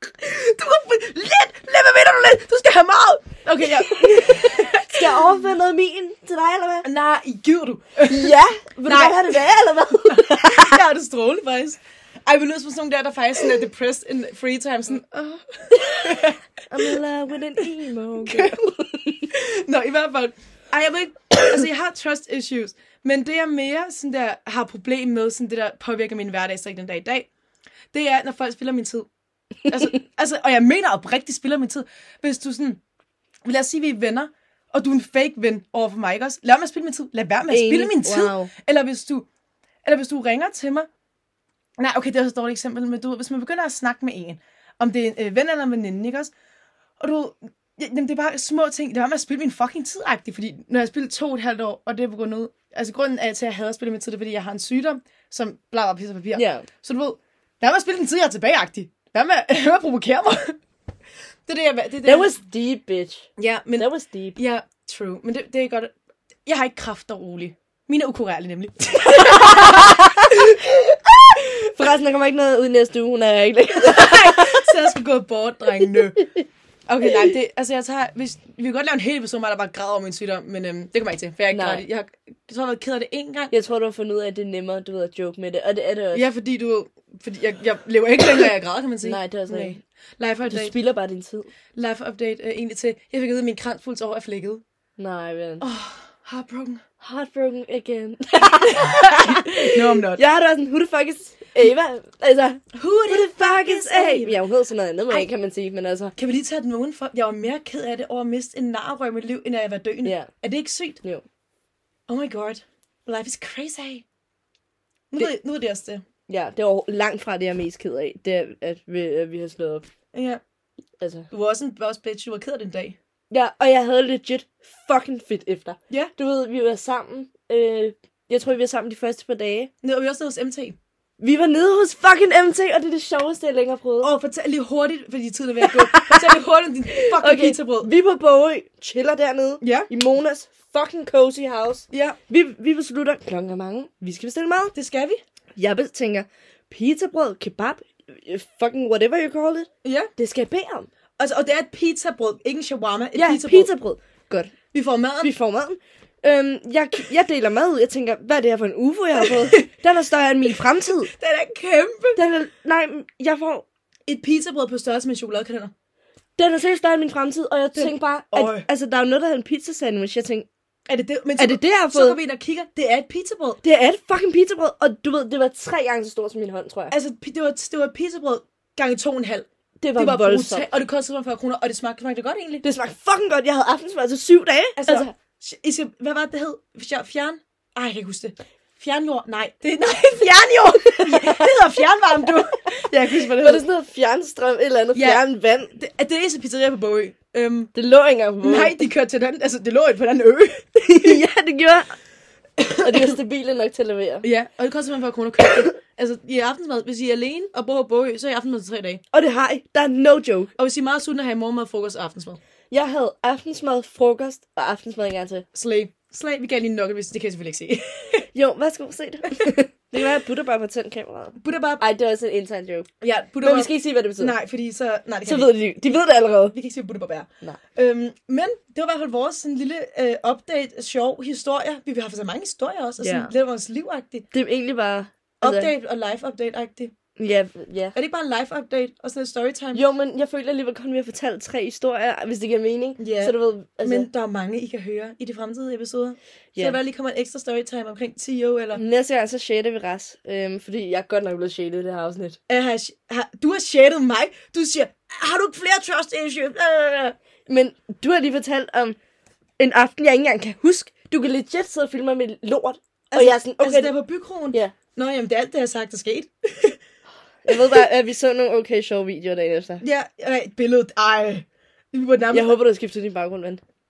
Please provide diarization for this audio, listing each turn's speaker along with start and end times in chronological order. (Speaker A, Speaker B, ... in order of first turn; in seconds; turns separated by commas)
Speaker A: 0.2-5.5, Speaker B: 3.7-6.9, Speaker A: 6.8-9.4, Speaker B: 8.1-10.8, Speaker A: 10.1-17.0, Speaker B: 15.7-19.3, Speaker A: 18.2-18.6, Speaker A: 19.3-27.3, Speaker A: 27.9-29.1, Speaker A: 29.6-32.8, Speaker A: 33.4-39.3, Speaker B: 37.5-38.5, Speaker A: 39.8-40.9, Speaker A: 41.8-46.3, Speaker A: 47.0-60.6, Speaker B: 56.3-56.7, Speaker A: 61.5-62.3, Speaker B: 62.0-64.4, Speaker A: 63.4-70.6, Speaker B: 69.1-70.8, Speaker B: 71.3-74.8, Speaker A: 73.8-76.2, Speaker A: 76.9-83.5, Speaker B: 81.5-81.8, Speaker B: 83.5-86.2, Speaker A: 86.1-90.8, Speaker B: 89.0-89.8, Speaker B: 90.5-91.5, Speaker A: 91.8-94.6, Speaker B: 95.0-95.7, Speaker A: 95.6-96.8, Speaker B: 97.0-106.1, Speaker A: 98.7-100.2, Speaker A: 102.7-104.4, Speaker A: 106.2-111.0, Speaker B: 110.0-110.3, Speaker A: 112.1-114.0, Speaker A: 115.1-116.0, Speaker B: 116.3-119.9, Speaker A: 120.1-120.4, Speaker B: 121.0-121.3, Speaker A: 121.3-123.0, Speaker B: 123.3-129.7, Speaker A: 129.8-130.8, Speaker B: 131.2-134.1, Speaker A: 134.0-137.9, Speaker B: 135.6-144.7, Speaker A: 139.6-139.9, Speaker A: 141.9-142.2, Speaker A: 144.7-145.2, Speaker B: 145.6-150.9, Speaker A: 149.8-150.1, Speaker A: 151.2-153.7, Speaker B: 153.1-154.5, Speaker A: 154.7-155.3, Speaker B: 155.2-161.1, Speaker A: 159.2-159.6, Speaker A: 161.0-162.2, Speaker B: 162.2-163.7, Speaker A: 164.1-165.7, Speaker B: 166.4-170.5, Speaker A: 167.7-168.7, Speaker A: 170.9-173.6, Speaker B: 171.4-172.2, Speaker B: 173.6-176.9, Speaker A: 176.9-179.4, Speaker B: 179.8-180.7, Speaker A: 180.0-182.6, Speaker B: 182.6-185.1, Speaker A: 184.8-193.6, Speaker B: 190.8-191.5, Speaker B: 193.3-195.7, Speaker A: 194.9-197.7, Speaker B: 197.7-198.8, Speaker A: 198.4-201.2, Speaker B: 200.8-201.9, Speaker A: 202.6-203.2, Speaker B: 202.8-204.3, Speaker A: 204.2-209.0, Speaker B: 209.1-210.5, Speaker A: 210.6-212.4, Speaker B: 212.7-215.4, Speaker A: 215.5-218.2, Speaker B: 218.3-222.9, Speaker A: 221.4-221.8, Speaker A: 223.0-226.0, Speaker B: 223.4-224.3, Speaker B: 225.2-226.5, Speaker A: 226.5-234.3, Speaker B: 233.0-233.3, Speaker B: 234.3-235.7, Speaker A: 235.4-236.9, Speaker B: 237.2-237.9, Speaker A: 237.9-239.8, Speaker B: 239.7-244.1, Speaker A: 243.0-248.8, Speaker B: 248.7-252.4, Speaker A: 252.5-257.1, Speaker B: 257.5-259.0, Speaker B: 259.6-263.9, Speaker A: 263.1-266.8, Speaker B: 267.4-269.8, Speaker A: 267.5-267.8, Speaker A: 269.8-272.6, Speaker B: 272.3-273.6